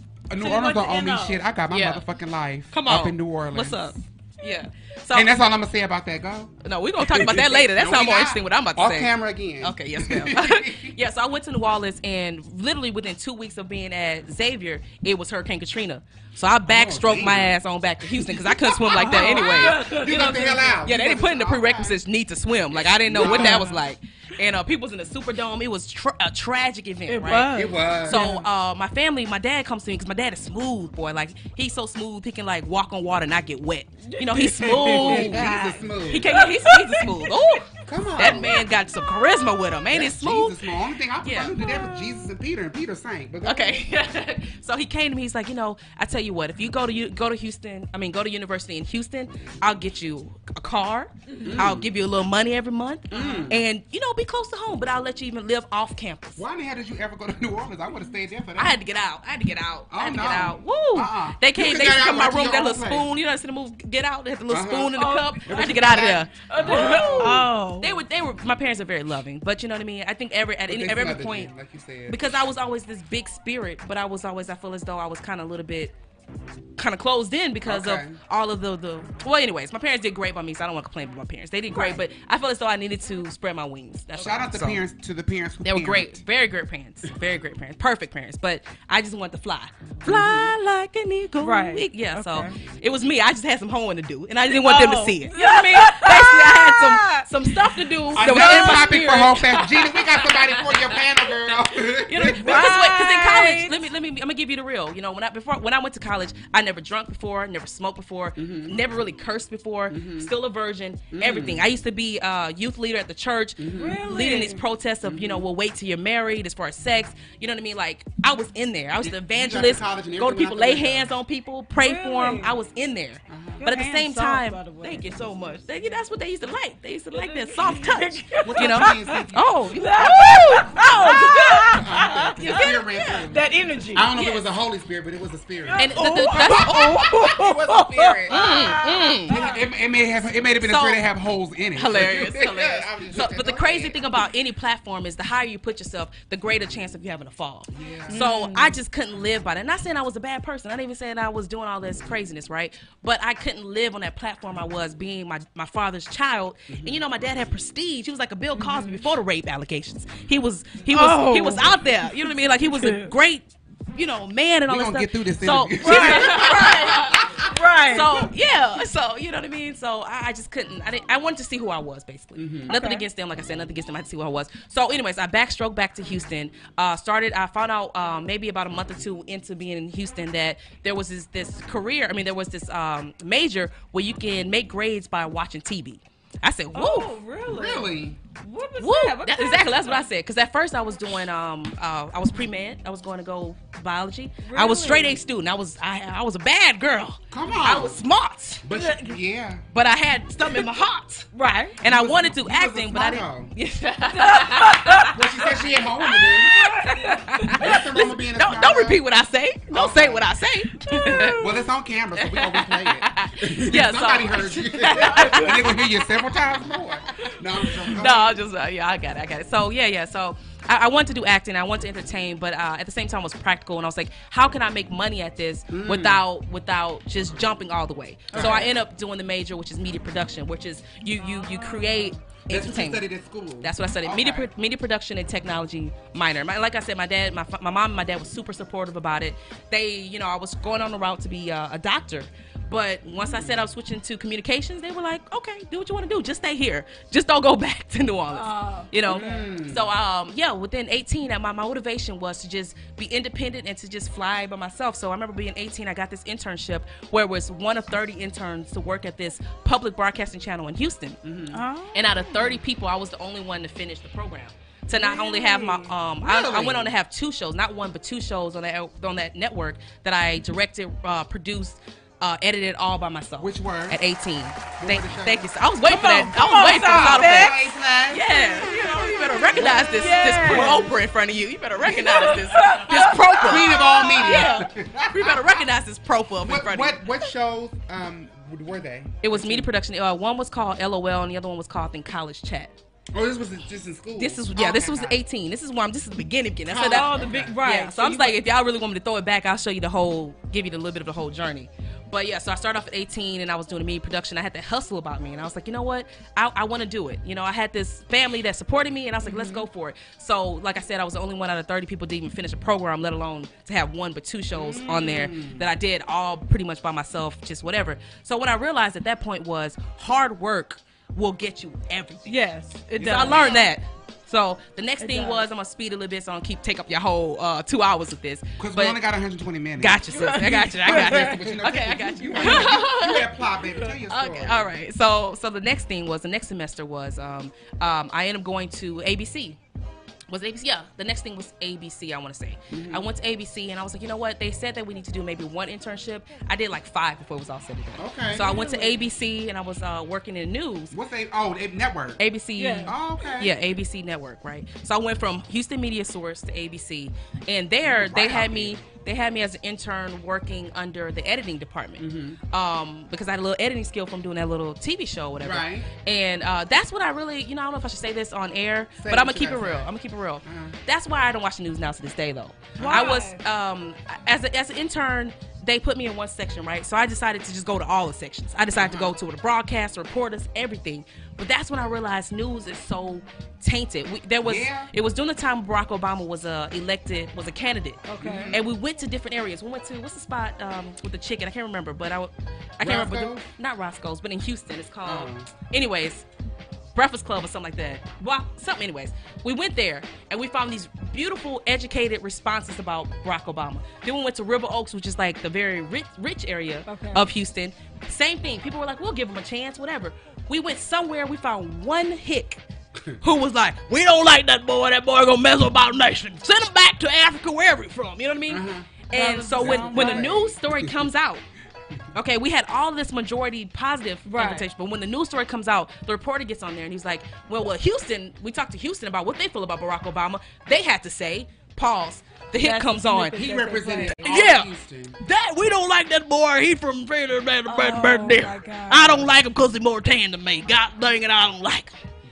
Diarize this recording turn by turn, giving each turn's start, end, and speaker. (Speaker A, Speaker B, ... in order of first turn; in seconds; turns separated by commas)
Speaker A: 0.3-4.0, Speaker B: 0.4-1.4, Speaker C: 1.7-2.0, Speaker C: 2.7-5.3, Speaker A: 5.1-11.0, Speaker C: 6.6-35.5, Speaker A: 16.7-17.5, Speaker A: 18.1-22.0, Speaker B: 18.9-20.9, Speaker A: 23.0-23.8, Speaker B: 23.2-23.8, Speaker B: 27.1-28.5, Speaker A: 27.5-28.3, Speaker B: 34.1-37.4, Speaker A: 34.4-36.3, Speaker C: 36.1-40.6, Speaker A: 37.9-38.6, Speaker A: 39.9-43.8, Speaker C: 41.2-41.5, Speaker B: 41.6-42.2, Speaker C: 43.4-56.4, Speaker B: 51.3-51.6, Speaker A: 51.4-51.9, Speaker A: 53.1-53.6, Speaker B: 53.2-53.5, Speaker A: 56.4-58.8, Speaker C: 58.6-71.5, Speaker A: 59.9-63.1, Speaker A: 64.5-67.5, Speaker B: 65.0-68.0, Speaker A: 70.7-72.3, Speaker C: 72.1-75.9, Speaker C: 76.8-84.8, Speaker A: 77.7-78.2, Speaker B: 81.7-82.0, Speaker A: 84.2-86.2, Speaker C: 85.7-131.8, Speaker A: 90.0-90.5, Speaker B: 91.4-92.6, Speaker B: 94.5-97.3, Speaker A: 98.2-102.8, Speaker B: 98.2-98.9, Speaker B: 102.2-103.8, Speaker A: 108.4-108.8, Speaker A: 109.9-110.3, Speaker A: 111.1-111.6, Speaker A: 113.6-114.2, Speaker B: 113.7-114.6, Speaker A: 115.0-115.5, Speaker A: 119.0-121.1, Speaker B: 121.8-122.5, Speaker A: 123.3-123.7, Speaker B: 123.6-126.0, Speaker B: 127.1-134.2, Speaker A: 128.4-129.5, Speaker A: 131.0-144.0, Speaker C: 132.4-133.3, Speaker B: 135.7-139.6, Speaker C: 135.8-137.3, Speaker C: 138.3-139.4, Speaker C: 140.6-141.0, Speaker C: 141.8-167.3, Speaker A: 147.7-148.2, Speaker B: 148.1-148.8, Speaker A: 156.7-157.0, Speaker B: 158.6-159.0, Speaker B: 160.9-163.1, Speaker A: 164.7-167.5, Speaker B: 165.8-168.3, Speaker C: 167.9-187.2, Speaker A: 172.4-172.7, Speaker B: 172.7-173.1, Speaker B: 186.7-190.0, Speaker A: 187.5-188.2, Speaker C: 188.8-198.7, Speaker B: 194.4-195.2, Speaker A: 197.3-198.0, Speaker A: 198.6-199.6, Speaker B: 198.7-199.2, Speaker C: 199.7-205.2, Speaker B: 201.3-201.8, Speaker A: 201.8-203.5, Speaker B: 204.2-205.3, Speaker A: 205.1-206.6, Speaker B: 206.1-207.8, Speaker C: 206.8-211.5, Speaker A: 207.6-209.0, Speaker A: 209.7-210.3, Speaker B: 210.9-211.5, Speaker A: 211.1-218.4, Speaker C: 212.2-216.2, Speaker B: 215.0-215.7, Speaker C: 217.2-233.0, Speaker A: 225.7-226.2, Speaker A: 228.3-228.8, Speaker B: 228.3-228.6, Speaker B: 231.2-232.1, Speaker A: 232.5-234.5, Speaker C: 233.6-261.2, Speaker A: 243.1-243.6, Speaker B: 248.3-249.5, Speaker A: 249.0-249.9, Speaker A: 261.2-261.6, Speaker B: 261.5-262.6, Speaker C: 261.9-284.6, Speaker A: 264.9-266.9, Speaker A: 273.4-274.0, Speaker A: 274.8-275.5, Speaker B: 275.8-277.7, Speaker A: 276.6-278.2, Speaker A: 279.5-280.9, Speaker B: 279.6-280.9, Speaker B: 281.8-284.7, Speaker A: 281.8-285.6, Speaker C: 285.1-287.0, Speaker A: 286.4-289.7, Speaker C: 289.2-292.7, Speaker A: 293.1-295.2, Speaker C: 294.2-322.3, Speaker A: 296.7-297.6, Speaker B: 296.8-298.4, Speaker A: 309.2-309.7, Speaker A: 314.5-315.6, Speaker B: 322.3-323.7, Speaker C: 323.0-329.0, Speaker B: 325.0-325.4, Speaker A: 328.6-330.0, Speaker C: 329.8-333.3, Speaker B: 330.1-331.4, Speaker A: 330.8-334.7, Speaker B: 332.4-332.8, Speaker C: 334.1-339.6, Speaker C: 340.3-350.9, Speaker A: 342.7-343.0, Speaker A: 348.0-348.5, Speaker B: 348.4-349.0, Speaker A: 350.9-352.2, Speaker C: 352.2-396.2, Speaker B: 352.6-352.9, Speaker A: 352.9-353.5, Speaker A: 357.9-358.8, Speaker A: 362.0-362.4, Speaker A: 365.4-365.9, Speaker A: 369.0-369.9, Speaker A: 370.4-370.8, Speaker A: 372.8-373.2, Speaker B: 372.8-373.4, Speaker A: 378.8-379.1, Speaker A: 384.4-384.9, Speaker B: 388.1-388.6, Speaker A: 388.2-388.6, Speaker A: 392.8-393.5, Speaker A: 395.1-395.5, Speaker C: 396.9-412.6, Speaker B: 406.9-407.2, Speaker C: 413.2-421.4, Speaker A: 418.5-418.9, Speaker B: 419.1-420.3, Speaker A: 419.6-421.0, Speaker C: 422.1-433.4, Speaker B: 424.2-424.7, Speaker B: 432.6-434.5, Speaker A: 433.3-435.2, Speaker C: 434.2-441.9, Speaker B: 437.7-439.3